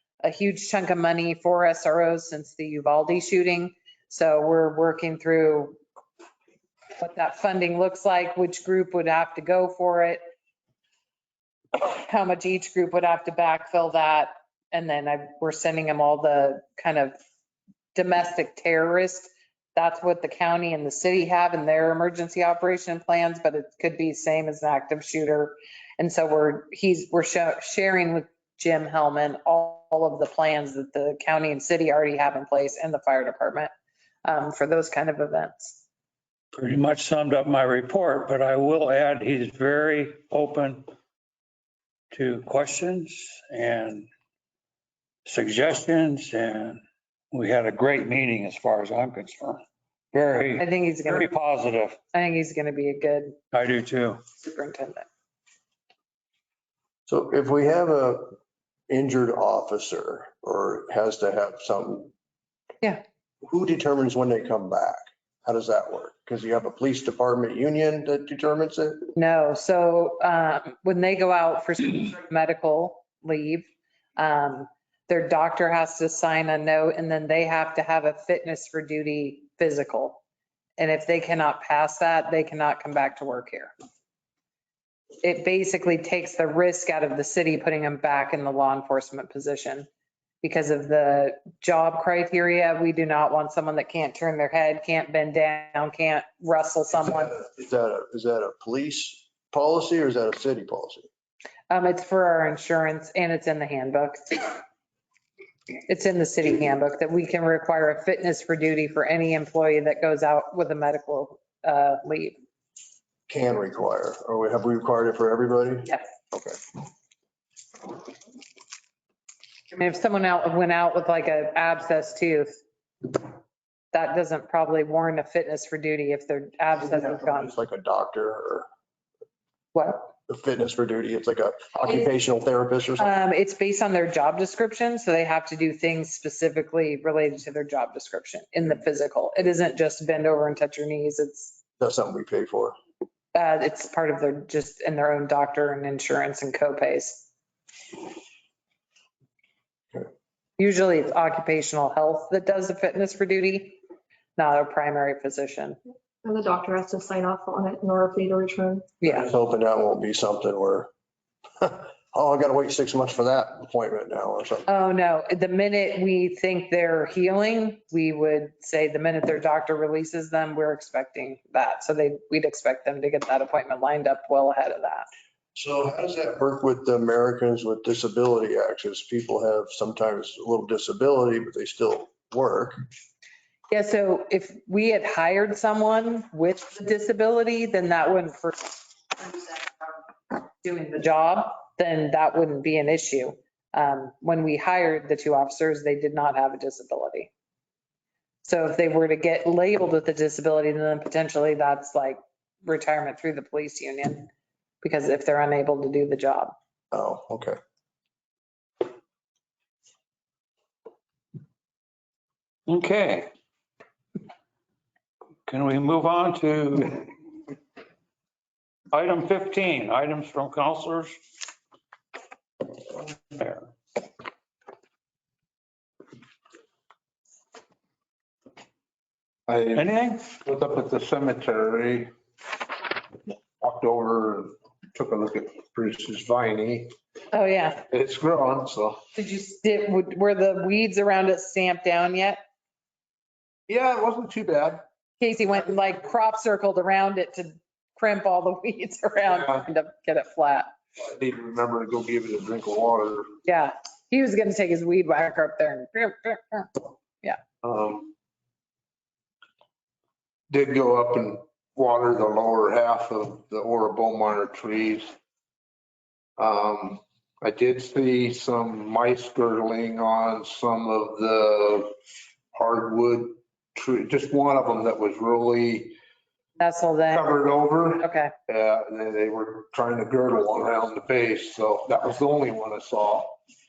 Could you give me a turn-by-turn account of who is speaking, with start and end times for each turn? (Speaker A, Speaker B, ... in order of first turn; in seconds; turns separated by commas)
Speaker A: 0.2-5.8, Speaker A: 7.0-10.2, Speaker A: 11.8-17.1, Speaker A: 17.9-33.7, Speaker A: 34.2-35.8, Speaker B: 36.5-40.9, Speaker B: 42.1-44.1, Speaker B: 45.2-49.6, Speaker B: 50.1-52.0, Speaker A: 50.6-51.3, Speaker A: 52.1-53.4, Speaker B: 53.5-54.2, Speaker A: 54.4-55.1, Speaker C: 57.1-58.4, Speaker C: 58.9-62.1, Speaker C: 63.4-69.1, Speaker A: 69.2-80.2, Speaker A: 80.8-83.7, Speaker A: 85.2-89.9, Speaker A: 90.4-97.3, Speaker C: 97.3-101.1, Speaker A: 101.7-104.6, Speaker A: 105.9-112.4, Speaker C: 113.3-116.6, Speaker A: 119.7-123.2, Speaker A: 123.9-127.5, Speaker C: 127.2-128.7, Speaker A: 129.7-130.1, Speaker C: 130.3-133.1, Speaker A: 133.0-141.6, Speaker C: 141.8-142.8, Speaker A: 143.3-147.3, Speaker A: 150.6-153.8, Speaker A: 154.4-155.8, Speaker D: 156.2-159.0, Speaker A: 159.0-159.3, Speaker C: 159.1-160.9, Speaker C: 161.6-164.7, Speaker A: 164.7-175.1, Speaker C: 175.6-182.8, Speaker A: 183.7-197.3, Speaker A: 198.4-204.3, Speaker A: 204.8-206.6, Speaker C: 206.9-207.6, Speaker B: 212.7-213.3, Speaker B: 215.5-217.1, Speaker B: 218.9-221.2, Speaker B: 223.3-223.7, Speaker E: 229.5-232.1, Speaker B: 229.7-230.2, Speaker E: 233.6-236.9, Speaker A: 237.3-237.8, Speaker E: 237.9-239.0, Speaker A: 239.2-242.4, Speaker E: 243.7-244.9, Speaker A: 245.2-250.7, Speaker E: 249.3-249.7, Speaker E: 251.0-253.3, Speaker A: 253.4-257.4, Speaker E: 257.6-258.1, Speaker E: 260.5-265.1, Speaker E: 266.4-272.0, Speaker E: 272.5-276.0, Speaker A: 276.6-277.3, Speaker E: 277.1-283.4, Speaker A: 278.0-278.3